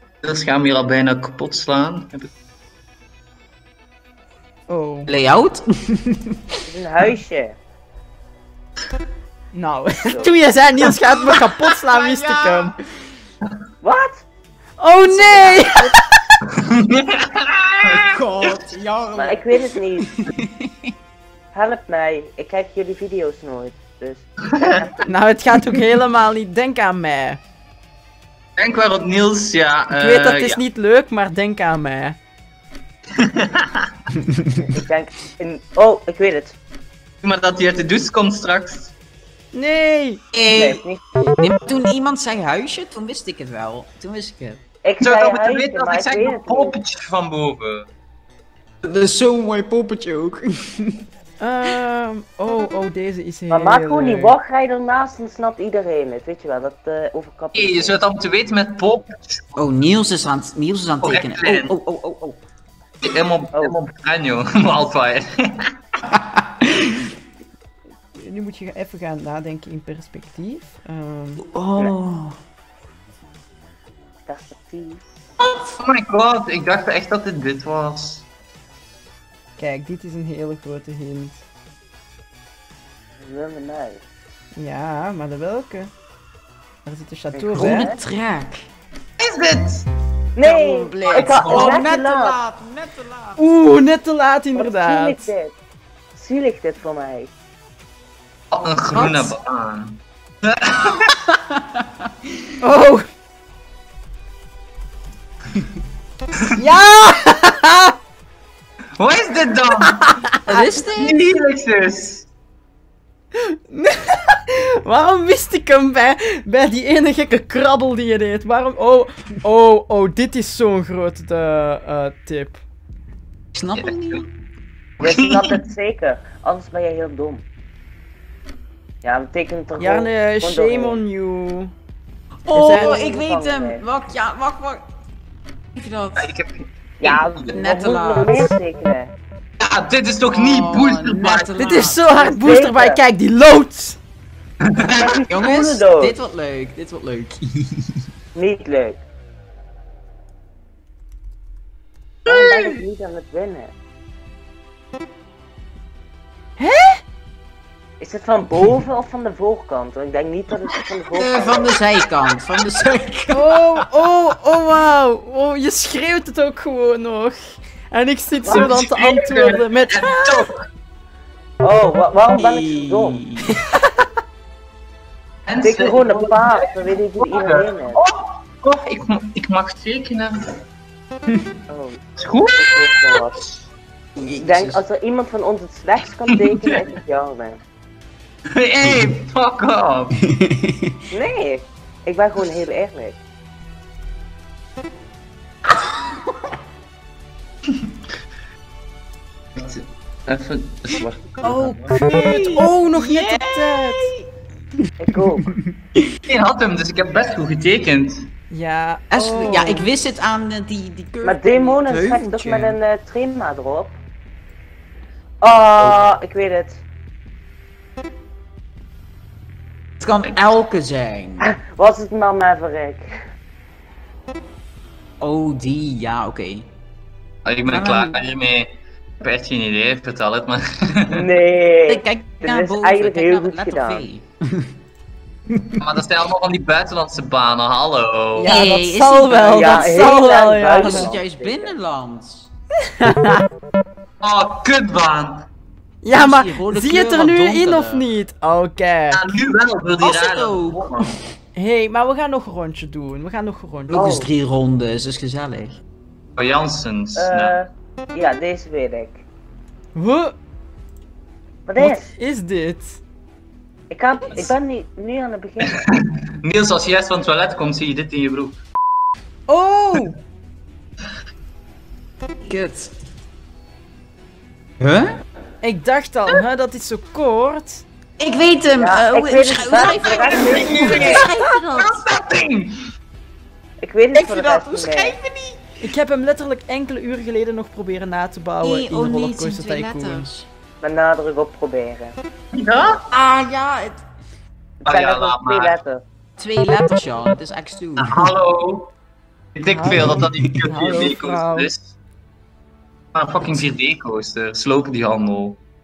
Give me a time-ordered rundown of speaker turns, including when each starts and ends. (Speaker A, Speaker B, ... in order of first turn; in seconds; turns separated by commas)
Speaker A: 0.2-2.3, Speaker B: 4.7-5.1, Speaker C: 5.1-6.4, Speaker D: 6.7-7.6, Speaker B: 9.5-12.7, Speaker D: 10.0-10.4, Speaker C: 11.9-12.8, Speaker D: 13.8-14.2, Speaker B: 14.8-15.8, Speaker C: 15.2-16.0, Speaker A: 16.7-18.0, Speaker C: 17.9-20.7, Speaker D: 19.1-20.1, Speaker D: 21.5-24.9, Speaker B: 25.1-27.4, Speaker A: 28.6-30.6, Speaker B: 29.9-32.2, Speaker A: 33.2-33.9, Speaker D: 34.5-36.6, Speaker A: 37.2-38.9, Speaker B: 39.5-40.2, Speaker C: 40.3-40.8, Speaker D: 40.5-41.4, Speaker C: 41.4-44.6, Speaker D: 44.8-46.8, Speaker A: 45.0-47.9, Speaker C: 48.8-51.0, Speaker B: 51.4-54.4, Speaker D: 53.5-58.0, Speaker A: 57.5-59.5, Speaker C: 59.6-62.4, Speaker A: 61.0-61.7, Speaker A: 63.0-65.3, Speaker C: 66.2-66.9, Speaker B: 68.2-71.4, Speaker C: 71.4-72.3, Speaker D: 74.3-75.0, Speaker A: 75.5-78.2, Speaker B: 79.6-81.4, Speaker D: 83.2-84.0, Speaker B: 84.5-85.9, Speaker B: 86.8-87.9, Speaker D: 87.3-88.0, Speaker C: 87.5-88.7, Speaker A: 89.2-89.9, Speaker D: 90.4-92.4, Speaker C: 90.4-93.4, Speaker A: 91.1-91.8, Speaker B: 93.4-95.2, Speaker D: 94.5-95.5, Speaker D: 96.2-97.3, Speaker A: 98.5-101.0, Speaker C: 98.9-99.3, Speaker C: 101.3-101.8, Speaker B: 102.6-103.0, Speaker B: 106.6-107.9, Speaker A: 109.0-110.0, Speaker B: 109.9-110.6, Speaker C: 110.5-111.2, Speaker A: 111.0-112.3, Speaker B: 113.5-122.6, Speaker C: 123.5-124.2, Speaker A: 123.8-124.2, Speaker A: 125.0-125.5, Speaker D: 125.0-127.4, Speaker D: 129.0-131.0, Speaker B: 129.8-131.7, Speaker C: 132.4-134.8, Speaker B: 132.5-133.0, Speaker D: 132.6-133.8, Speaker C: 135.8-136.3, Speaker A: 136.2-137.6, Speaker D: 137.0-139.1, Speaker C: 137.5-138.5, Speaker A: 139.6-141.5, Speaker C: 140.3-142.0, Speaker B: 141.6-144.0, Speaker D: 142.2-143.0, Speaker A: 144.7-145.0, Speaker D: 144.8-146.2, Speaker C: 145.3-147.8, Speaker D: 148.3-149.0, Speaker D: 152.3-153.7, Speaker A: 152.3-152.8, Speaker B: 156.6-157.0, Speaker D: 158.0-161.7, Speaker C: 161.2-163.5, Speaker B: 163.3-170.4, Speaker D: 168.4-168.8, Speaker A: 168.5-170.7, Speaker D: 171.6-173.2, Speaker C: 172.4-173.5, Speaker B: 173.6-174.1, Speaker A: 175.5-180.4, Speaker D: 175.6-178.0, Speaker D: 181.7-182.0, Speaker A: 182.2-183.6, Speaker D: 182.6-183.4, Speaker C: 184.2-184.8, Speaker D: 184.4-187.6, Speaker A: 186.3-186.8, Speaker A: 188.5-190.2, Speaker C: 190.3-190.9, Speaker D: 191.1-193.2, Speaker C: 195.8-196.1, Speaker A: 199.6-201.9, Speaker B: 201.4-204.1, Speaker C: 202.1-204.2, Speaker D: 205.0-205.5, Speaker A: 206.3-208.3, Speaker B: 208.5-209.9, Speaker C: 209.1-212.8, Speaker D: 211.2-214.0, Speaker D: 215.4-216.8, Speaker C: 220.0-221.5, Speaker D: 221.4-223.1, Speaker C: 225.2-226.7, Speaker A: 227.5-231.2, Speaker C: 227.7-228.2, Speaker D: 231.1-234.1, Speaker C: 231.9-234.7, Speaker A: 235.8-238.5, Speaker B: 238.3-241.1, Speaker C: 238.5-240.1, Speaker D: 239.6-241.8, Speaker C: 240.8-242.5, Speaker B: 243.0-243.4, Speaker A: 244.2-245.5, Speaker B: 246.0-249.2, Speaker C: 246.1-248.1, Speaker A: 249.1-251.1, Speaker C: 250.0-251.2, Speaker B: 251.6-254.2, Speaker C: 253.9-255.8, Speaker D: 253.9-254.3, Speaker A: 256.4-257.6, Speaker D: 257.2-259.2, Speaker B: 260.0-260.4, Speaker D: 261.7-262.1, Speaker B: 261.8-263.0, Speaker D: 263.9-265.9, Speaker A: 266.4-268.6, Speaker B: 269.5-270.2, Speaker C: 272.4-272.9, Speaker C: 274.8-275.1, Speaker B: 275.6-277.9, Speaker C: 278.2-282.0, Speaker D: 278.8-281.3, Speaker A: 280.2-281.2, Speaker B: 280.7-281.2, Speaker A: 281.7-282.7, Speaker D: 283.8-285.2, Speaker C: 284.1-285.7, Speaker B: 285.8-290.3, Speaker C: 288.6-290.5, Speaker D: 290.8-292.1, Speaker A: 292.5-293.0, Speaker C: 293.1-294.0, Speaker A: 294.9-295.8, Speaker D: 294.9-296.0, Speaker C: 296.4-298.3, Speaker A: 298.0-298.9, Speaker A: 299.6-301.9, Speaker B: 299.7-301.7, Speaker C: 299.9-300.5, Speaker A: 303.1-305.6